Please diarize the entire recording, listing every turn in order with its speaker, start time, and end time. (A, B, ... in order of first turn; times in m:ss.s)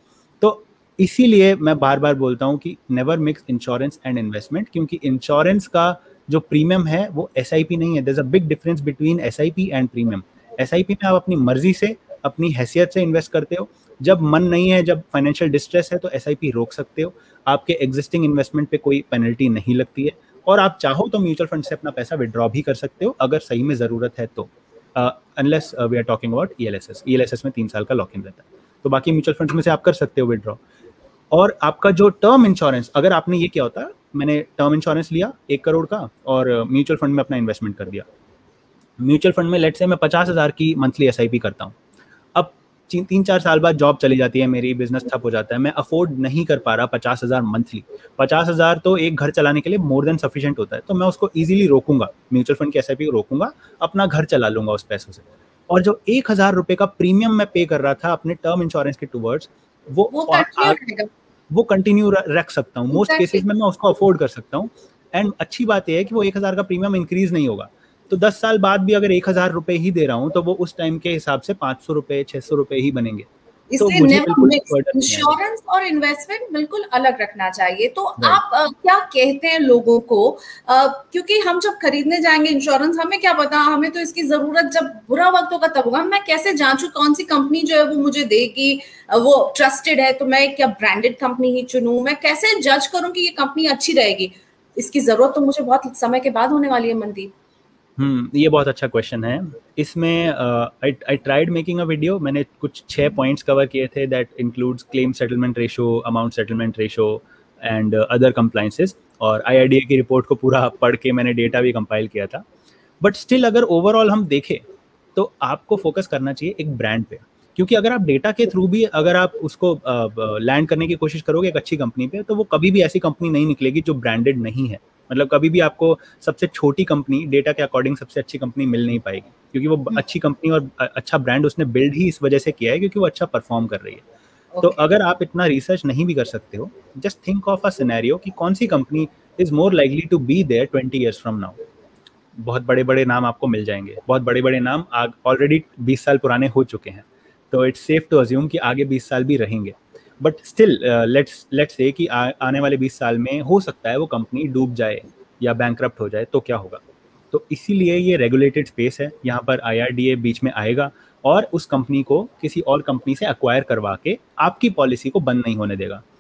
0:00.4-0:30.6 A
0:31.3-0:38.0 A
0:39.0-0:41.8 A
0:42.3-1:00.8 A
1:00.1-1:01.1 B
1:01.5-1:13.3 A
1:02.9-1:03.4 B
1:13.7-1:37.3 B
1:13.8-1:15.4 A
1:38.0-1:52.4 A
1:53.0-2:14.0 A
2:14.5-2:14.8 B
2:14.6-2:21.6 A
2:22.4-2:46.0 A